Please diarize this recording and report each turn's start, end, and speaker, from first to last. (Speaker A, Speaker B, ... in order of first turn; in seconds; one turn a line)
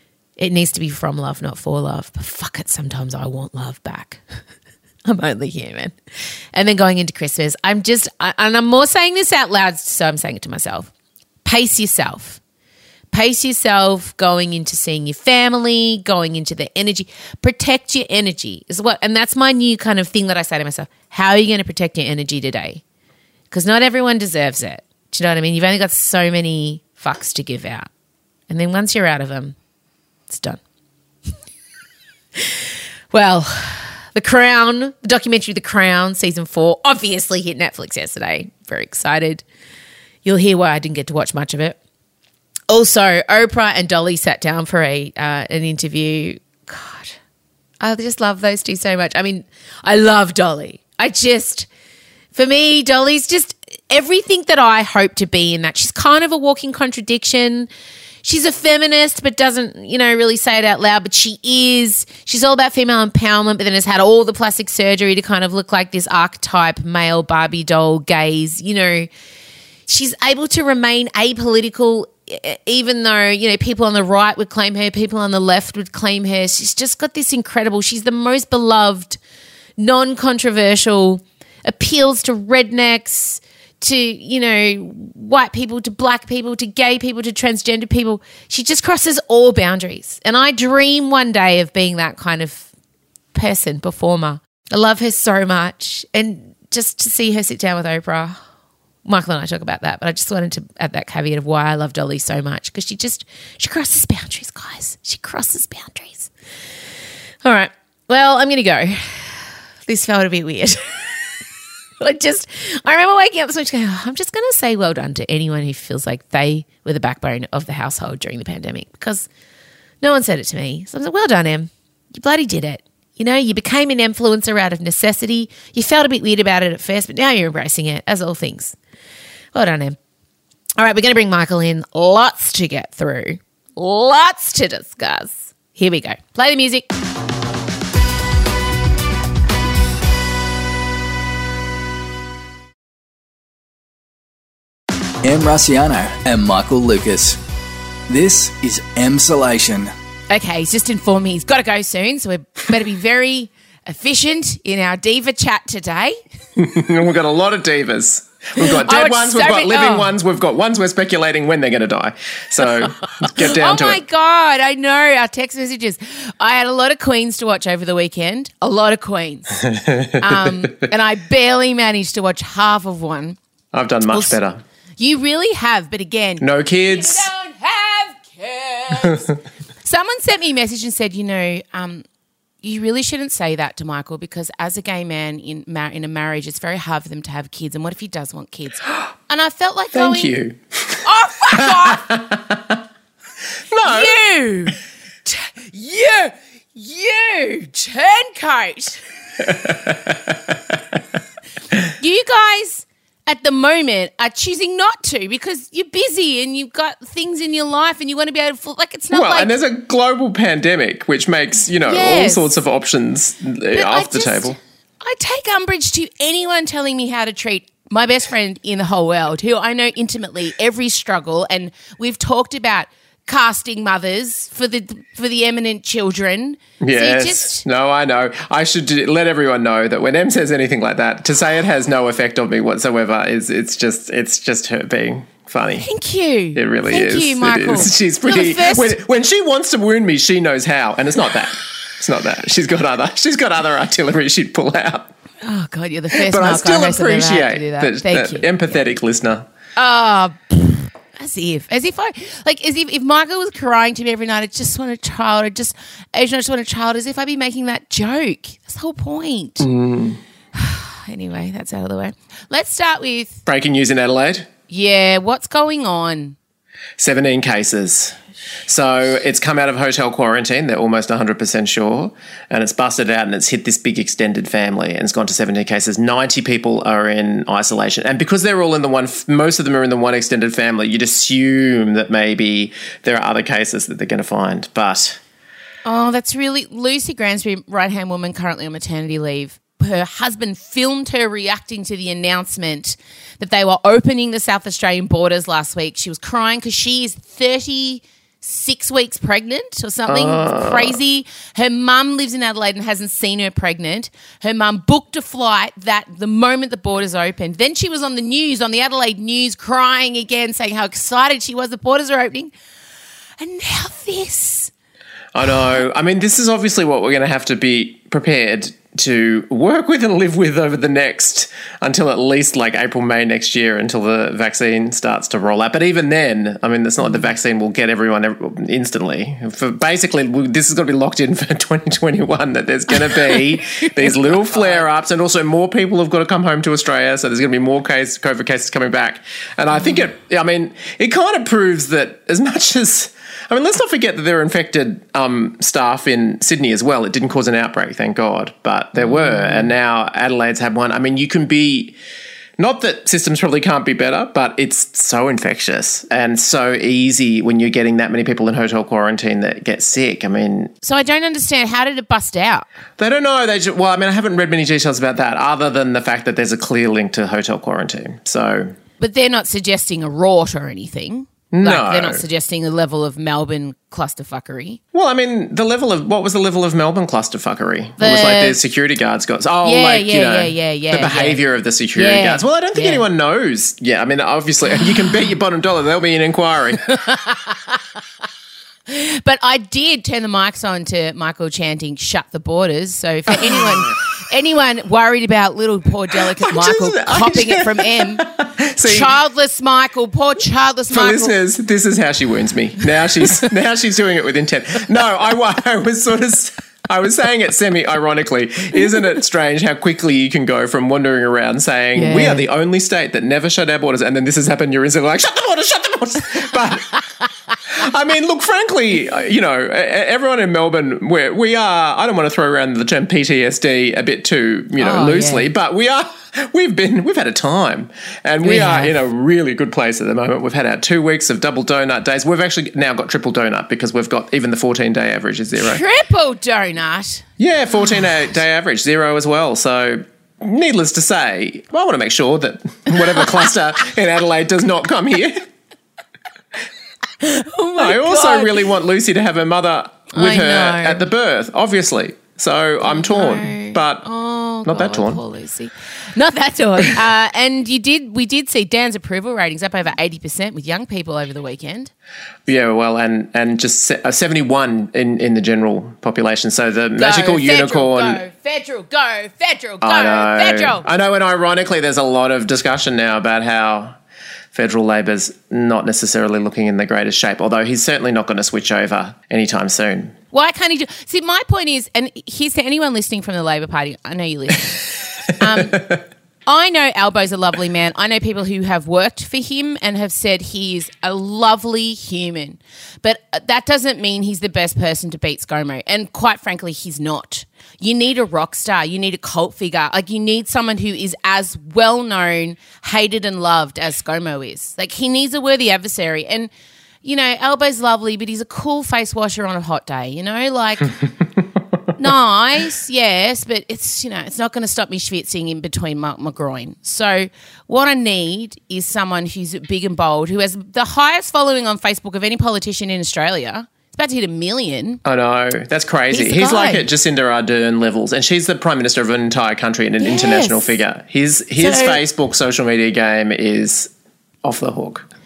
Speaker A: 0.4-4.2
Speaker A: 5.0-5.9
Speaker A: 6.5-10.9
Speaker A: 11.4-12.4
Speaker A: 13.1-22.8
Speaker A: 23.5-27.9
Speaker A: 28.5-29.5
Speaker A: 30.3-30.6
Speaker A: 33.1-39.4
Speaker A: 40.2-41.8
Speaker A: 42.7-47.2
Speaker A: 47.8-51.7
Speaker A: 52.3-57.7
Speaker A: 58.2-69.1
Speaker A: 69.9-79.2
Speaker A: 79.8-92.7
Speaker A: 93.3-98.4
Speaker A: 99.0-106.3
Speaker A: 107.4-111.1
Speaker A: 112.0-119.3
Speaker A: 120.0-128.8
Speaker A: 129.5-130.0
Speaker A: 130.8-136.9
Speaker B: 145.2-147.4
Speaker B: 148.1-149.9
Speaker A: 150.3-156.2
Speaker C: 156.6-164.0
Speaker A: 158.6-160.1
Speaker A: 163.2-169.6
Speaker C: 169.6-170.8
Speaker A: 170.2-173.4
Speaker C: 173.7-174.6
Speaker A: 174.1-174.4
Speaker A: 175.0-179.3
Speaker C: 176.4-177.3
Speaker A: 179.8-182.0
Speaker A: 182.6-190.4
Speaker C: 189.9-192.8
Speaker A: 191.0-192.0
Speaker C: 193.7-194.2
Speaker A: 193.8-199.0
Speaker C: 199.4-201.0
Speaker A: 202.0-209.5
Speaker C: 209.1-214.6
Speaker A: 211.8-212.5
Speaker A: 213.7-227.6
Speaker C: 226.8-235.9
Speaker A: 235.8-238.9
Speaker C: 236.5-245.1
Speaker A: 245.4-248.8
Speaker C: 246.1-249.5
Speaker A: 249.8-259.7
Speaker C: 259.6-260.2
Speaker A: 260.5-263.4
Speaker C: 263.4-264.5
Speaker A: 264.7-266.4
Speaker C: 267.0-268.1
Speaker C: 268.7-285.2
Speaker A: 285.9-312.5
Speaker C: 300.1-301.0
Speaker A: 313.4-314.7
Speaker C: 315.3-351.9
Speaker A: 327.0-327.3
Speaker A: 333.1-334.8
Speaker A: 349.4-349.6
Speaker C: 352.6-360.7
Speaker A: 360.8-362.6
Speaker C: 363.0-368.8
Speaker A: 369.0-374.8
Speaker C: 371.5-372.2
Speaker C: 374.9-386.9
Speaker A: 378.0-378.6
Speaker A: 379.6-381.4
Speaker A: 381.9-383.0
Speaker A: 386.9-387.8
Speaker A: 388.9-398.3
Speaker C: 393.3-393.9
Speaker C: 396.1-399.1
Speaker A: 398.8-401.4
Speaker C: 400.9-417.0
Speaker A: 411.9-412.5
Speaker C: 417.7-435.8
Speaker A: 424.8-425.5
Speaker A: 428.4-428.9
Speaker A: 435.6-437.2
Speaker C: 437.4-445.5
Speaker A: 447.2-448.6
Speaker C: 447.8-454.1
Speaker A: 450.1-451.1
Speaker A: 452.8-461.9
Speaker C: 454.6-455.2
Speaker C: 462.4-468.2
Speaker A: 467.0-470.9
Speaker C: 469.8-474.0
Speaker C: 474.5-480.1
Speaker A: 480.3-485.9
Speaker A: 486.4-506.5
Speaker A: 507.0-510.9
Speaker A: 512.0-525.0
Speaker C: 525.0-533.9
Speaker A: 526.1-526.9
Speaker A: 530.0-530.8
Speaker A: 531.6-532.0
Speaker C: 534.4-535.0